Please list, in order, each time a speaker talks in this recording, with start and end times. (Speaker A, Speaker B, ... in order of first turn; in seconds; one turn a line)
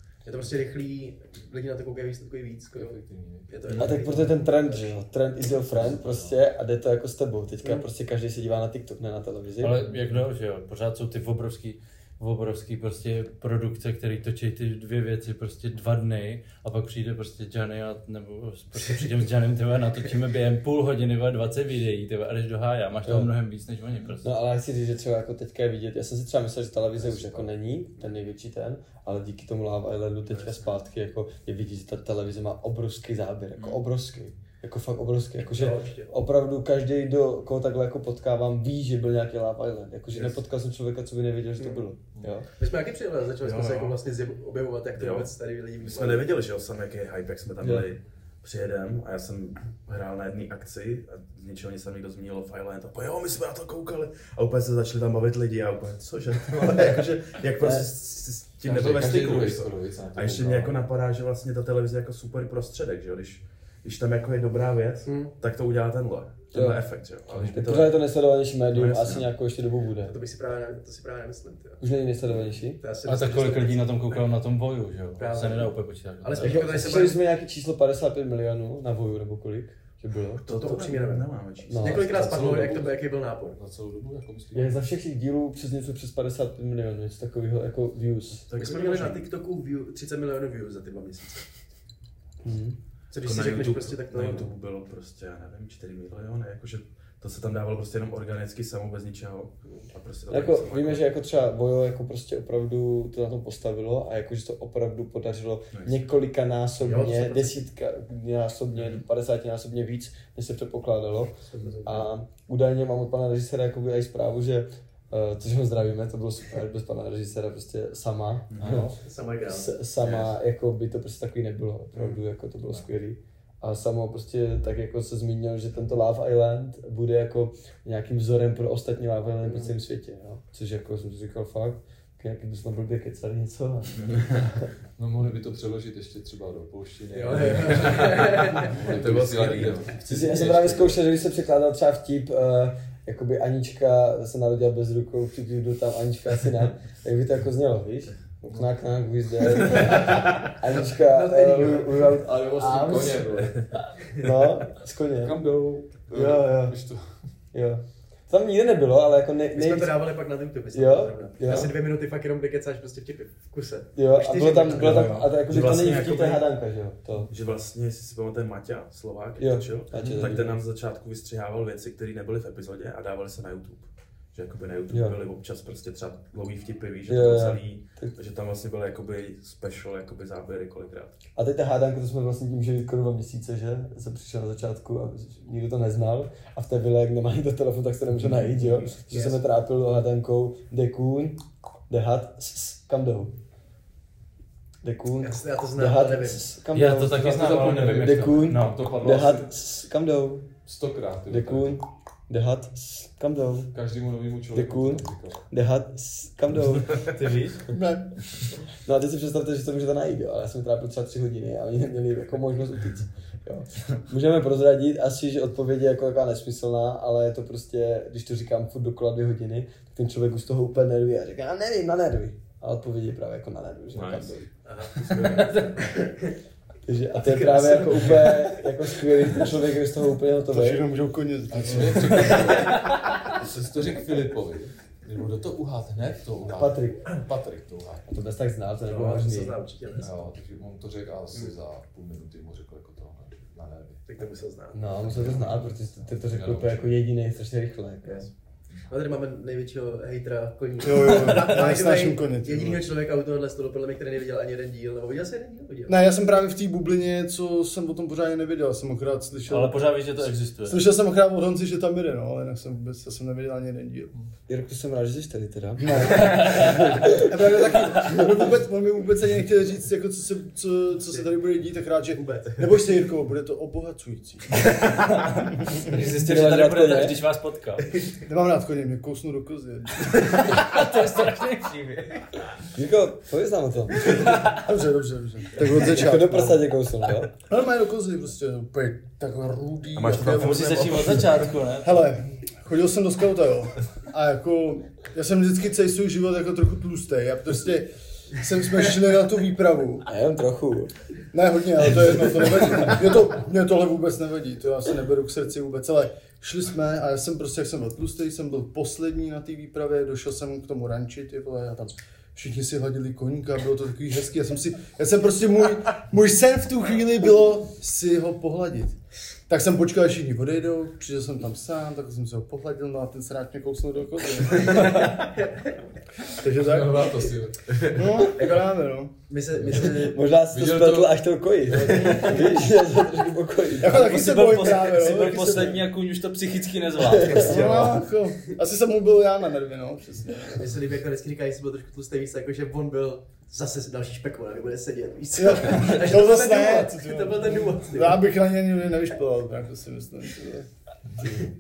Speaker A: 0.2-5.0
Speaker B: 2.7-4.3
Speaker C: 3.8-9.8
Speaker B: 5.6-6.4
Speaker D: 9.6-24.3
Speaker C: 23.1-23.3
Speaker C: 24.2-42.5
Speaker B: 27.0-27.4
Speaker E: 30.3-30.7
Speaker E: 33.5-33.8
Speaker A: 35.4-36.1
Speaker A: 41.6-41.9
Speaker A: 42.6-46.3
Speaker E: 43.4-44.0
Speaker E: 44.9-68.0
Speaker C: 47.6-47.9
Speaker C: 57.6-57.9
Speaker B: 58.6-60.8
Speaker A: 65.0-65.3
Speaker C: 66.5-66.8
Speaker C: 67.4-70.1
Speaker E: 68.7-69.3
Speaker A: 70.0-71.8
Speaker C: 71.8-72.8
Speaker A: 72.8-74.3
Speaker D: 73.0-76.8
Speaker A: 75.2-77.2
Speaker C: 76.4-80.4
Speaker E: 80.4-82.3
Speaker A: 80.5-83.6
Speaker C: 81.6-82.2
Speaker B: 82.1-84.7
Speaker C: 84.5-88.5
Speaker E: 88.5-89.3
Speaker A: 88.5-91.5
Speaker C: 92.4-92.8
Speaker A: 93.1-94.5
Speaker E: 93.2-101.0
Speaker C: 100.3-118.9
Speaker E: 105.7-106.1
Speaker A: 106.8-107.7
Speaker A: 111.5-112.0
Speaker E: 118.5-118.8
Speaker B: 118.6-119.0
Speaker A: 119.0-119.8
Speaker C: 119.5-134.7
Speaker E: 120.0-120.3
Speaker A: 129.4-129.7
Speaker E: 134.0-134.4
Speaker B: 135.0-141.0
Speaker A: 137.1-138.8
Speaker E: 137.8-139.9
Speaker C: 140.1-153.5
Speaker A: 150.7-152.1
Speaker B: 152.1-153.7
Speaker C: 154.2-155.4
Speaker B: 155.2-157.1
Speaker C: 156.1-156.8
Speaker C: 157.5-160.0
Speaker A: 159.5-165.2
Speaker C: 160.7-161.7
Speaker C: 163.9-167.3
Speaker E: 164.8-166.4
Speaker E: 167.3-181.2
Speaker C: 169.4-170.6
Speaker A: 170.0-170.2
Speaker C: 174.9-175.2
Speaker C: 177.1-178.2
Speaker C: 181.3-193.3
Speaker A: 189.1-189.4
Speaker C: 194.8-200.5
Speaker A: 195.2-196.4
Speaker D: 196.7-198.8
Speaker B: 197.2-199.5
Speaker B: 200.6-201.8
Speaker C: 201.3-203.7
Speaker B: 203.7-205.4
Speaker C: 204.5-207.1
Speaker D: 207.2-207.6
Speaker F: 207.7-208.1
Speaker C: 208.8-224.5
Speaker E: 223.9-224.3
Speaker A: 224.6-226.3
Speaker C: 226.8-230.9
Speaker A: 227.2-229.4
Speaker F: 230.5-232.5
Speaker B: 231.5-238.1
Speaker C: 236.5-237.0
Speaker C: 238.1-239.6
Speaker A: 238.8-240.3
Speaker B: 240.0-244.0
Speaker A: 244.1-245.0
Speaker C: 244.7-248.3
Speaker B: 244.9-246.9
Speaker A: 248.0-248.3
Speaker A: 248.9-255.9
Speaker F: 250.8-252.8
Speaker F: 255.9-260.0
Speaker D: 259.5-260.8
Speaker F: 260.6-264.1
Speaker C: 264.5-267.2
Speaker F: 265.8-274.7
Speaker D: 266.2-266.7
Speaker A: 272.1-272.7
Speaker F: 275.6-275.9
Speaker D: 275.8-278.0
Speaker C: 276.1-277.2
Speaker F: 278.2-280.4
Speaker D: 280.1-282.5
Speaker C: 282.7-284.1
Speaker D: 284.1-284.5
Speaker F: 284.2-286.6
Speaker C: 285.7-287.3
Speaker F: 287.5-291.3
Speaker E: 289.9-291.5
Speaker D: 290.4-292.1
Speaker F: 291.8-300.1
Speaker C: 300.1-300.9
Speaker F: 301.3-318.9
Speaker C: 302.0-302.7
Speaker F: 319.5-325.2
Speaker A: 325.0-325.7
Speaker F: 326.3-327.3
Speaker B: 326.4-328.0
Speaker F: 327.9-329.1
Speaker A: 328.3-328.6
Speaker A: 329.2-330.2
Speaker B: 329.6-332.6
Speaker C: 329.9-334.1
Speaker F: 333.8-335.8
Speaker D: 333.8-337.9
Speaker C: 337.1-337.7
Speaker A: 337.2-338.0
Speaker F: 337.4-340.7
Speaker A: 340.5-348.2
Speaker F: 345.4-350.7
Speaker B: 351.2-351.5